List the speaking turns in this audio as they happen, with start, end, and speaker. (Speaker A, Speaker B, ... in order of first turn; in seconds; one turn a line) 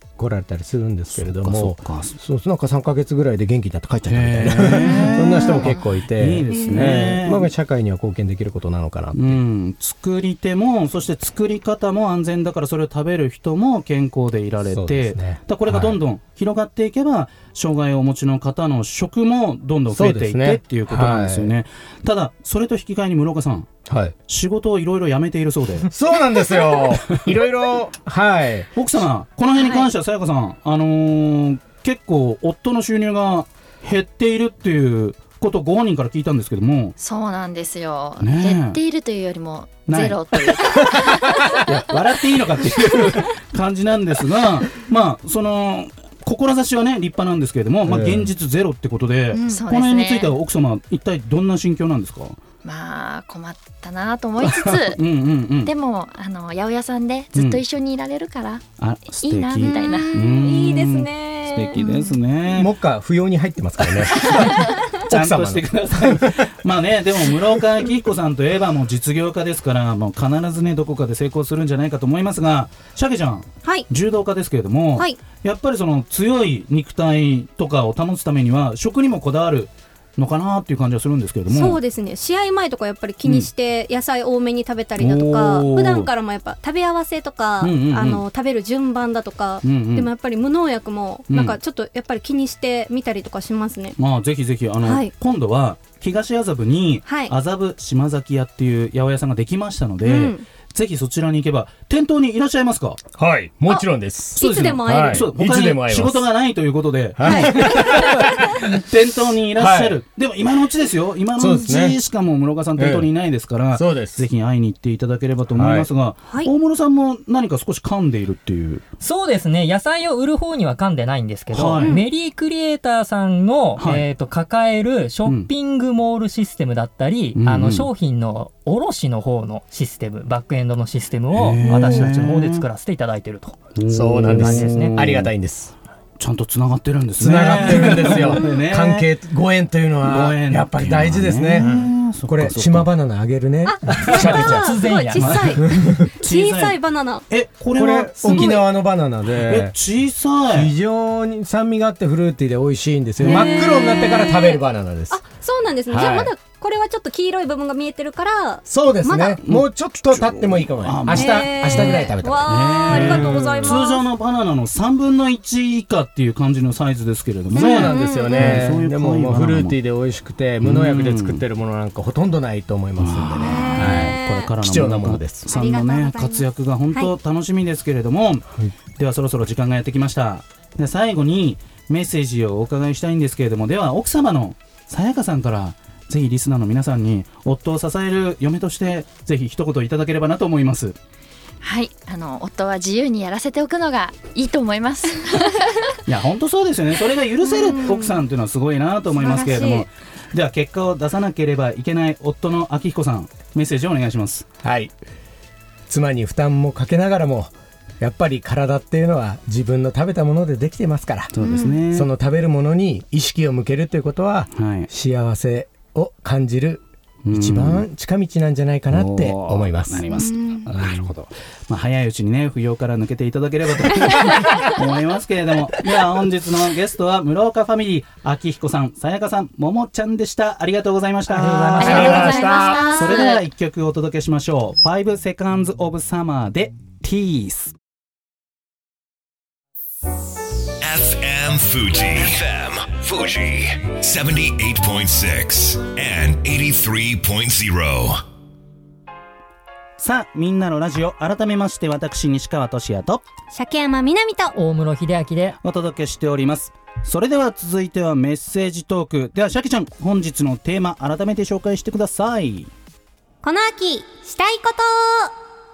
Speaker A: 0.2-9.4
Speaker B: 1.1-2.1
Speaker B: 4.0-7.5
Speaker B: 9.1-23.7
Speaker A: 14.7-16.0
Speaker A: 19.9-21.5
Speaker A: 23.9-24.1
Speaker B: 24.3-25.9
Speaker A: 25.9-28.7
Speaker B: 28.8-36.9
Speaker C: 29.5-29.9
Speaker C: 37.0-41.2
Speaker B: 38.2-38.8
Speaker B: 39.9-52.4
Speaker A: 47.9-48.3
Speaker C: 49.5-50.3
Speaker C: 52.6-55.0
Speaker B: 54.4-55.7
Speaker C: 55.6-58.6
Speaker B: 57.3-57.6
Speaker B: 58.8-62.7
Speaker C: 59.2-60.2
Speaker D: 59.6-61.9
Speaker A: 62.4-66.5
Speaker B: 63.9-81.8
Speaker D: 81.5-94.0
Speaker B: 83.2-83.5
Speaker B: 85.0-86.1
Speaker B: 87.6-88.2
Speaker B: 89.6-90.1
Speaker B: 91.3-91.6
Speaker B: 94.0-103.0
Speaker D: 94.8-95.1
Speaker D: 97.0-97.3
Speaker D: 100.0-100.4
Speaker A: 103.1-106.3
Speaker D: 104.3-105.2
Speaker B: 104.4-118.8
Speaker A: 107.2-108.7
Speaker D: 107.2-108.5
Speaker A: 109.5-110.0
Speaker A: 111.4-112.0
Speaker A: 112.8-113.1
Speaker A: 113.7-114.2
Speaker A: 115.5-115.9
Speaker E: 119.0-133.6
Speaker B: 121.5-122.0
Speaker B: 123.8-124.0
Speaker B: 127.3-127.9
Speaker B: 131.3-132.6
Speaker A: 131.7-132.1
Speaker B: 133.7-135.3
Speaker A: 133.9-135.7
Speaker E: 134.3-134.9
Speaker B: 136.2-139.1
Speaker A: 137.2-144.8
Speaker B: 140.0-142.9
Speaker D: 143.7-145.7
Speaker E: 144.1-145.5
Speaker B: 144.1-144.4
Speaker B: 145.1-146.8
Speaker A: 145.6-146.1
Speaker D: 146.2-147.2
Speaker B: 147.3-148.6
Speaker A: 147.7-149.7
Speaker D: 148.3-148.6
Speaker B: 149.4-150.7
Speaker A: 150.5-155.2
Speaker B: 153.2-153.8
Speaker D: 153.2-159.4
Speaker A: 155.9-156.3
Speaker A: 158.7-163.8
Speaker B: 159.4-169.8
Speaker D: 161.1-164.1
Speaker D: 167.5-168.7
Speaker A: 167.5-175.5
Speaker B: 170.6-171.4
Speaker B: 173.0-178.4
Speaker D: 173.4-174.5
Speaker D: 175.5-177.1
Speaker B: 179.0-190.9
Speaker C: 191.6-195.7
Speaker B: 196.1-204.4
Speaker D: 197.4-198.2
Speaker D: 199.2-199.9
Speaker A: 204.6-204.9
Speaker A: 205.9-220.0
Speaker B: 211.3-212.1
Speaker D: 211.4-211.8
Speaker B: 214.5-214.9
Speaker B: 217.2-217.8
Speaker B: 218.9-237.7
Speaker D: 220.1-220.7
Speaker A: 220.8-221.1
Speaker E: 231.3-232.2
Speaker A: 231.7-233.1
Speaker C: 231.8-233.4
Speaker D: 232.0-233.3
Speaker F: 240.8-248.2
Speaker B: 250.0-253.2
Speaker D: 253.5-254.5
Speaker E: 254.5-255.6
Speaker B: 255.6-262.7
Speaker D: 263.4-265.3